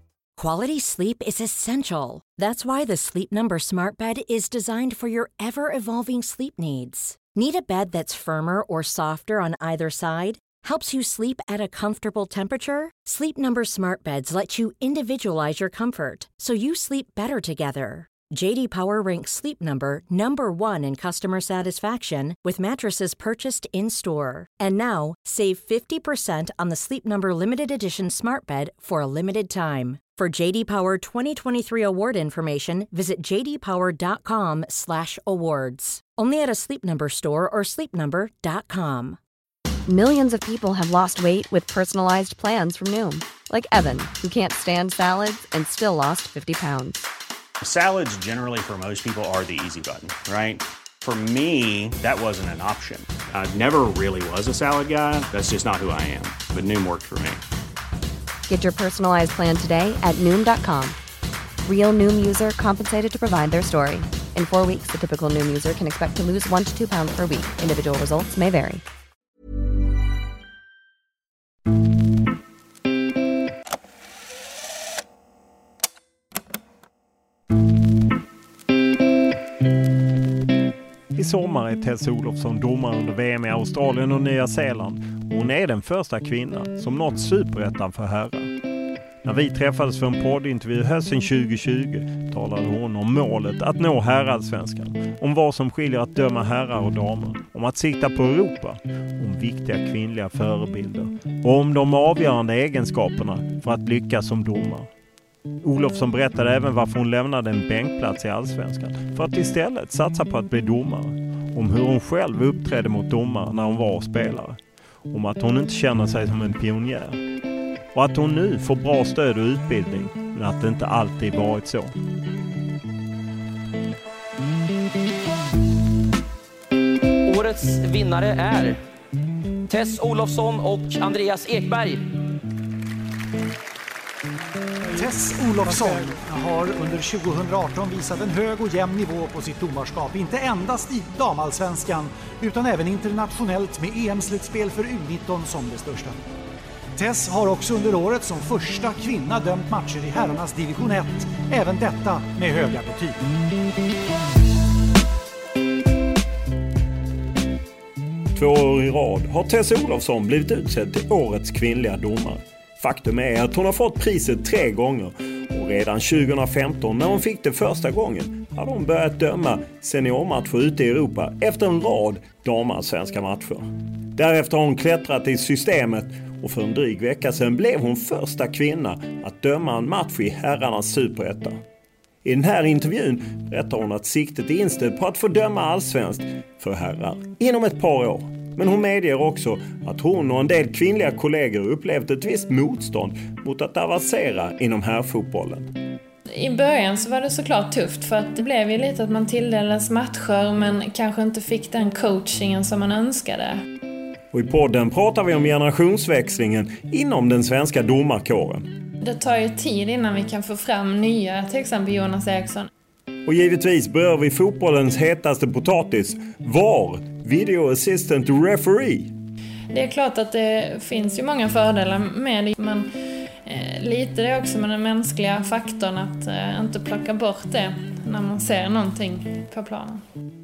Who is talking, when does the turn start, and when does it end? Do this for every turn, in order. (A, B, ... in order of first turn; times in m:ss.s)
0:00.4-0:39.2 A
0:39.9-0:47.1 B
0:47.6-0:57.4 C
0:58.5-1:01.0 B
1:01.6-1:08.8 B
1:21.1-1:28.5 D
1:29.2-1:44.9 D
1:45.6-1:57.2 D
1:57.9-2:01.9 D
2:07.2-2:08.8 E
2:09.7-2:12.0 E
2:14.9-2:26.2 F
2:27.0-2:33.2 F
2:38.3-3:01.6 D
3:02.2-3:15.7 D
3:16.3-3:23.6 G
3:24.3-3:28.7 D
3:29.0-3:32.7 G
3:33.3-3:39.1 D
3:39.7-3:42.9 G
3:43.4-3:50.0 G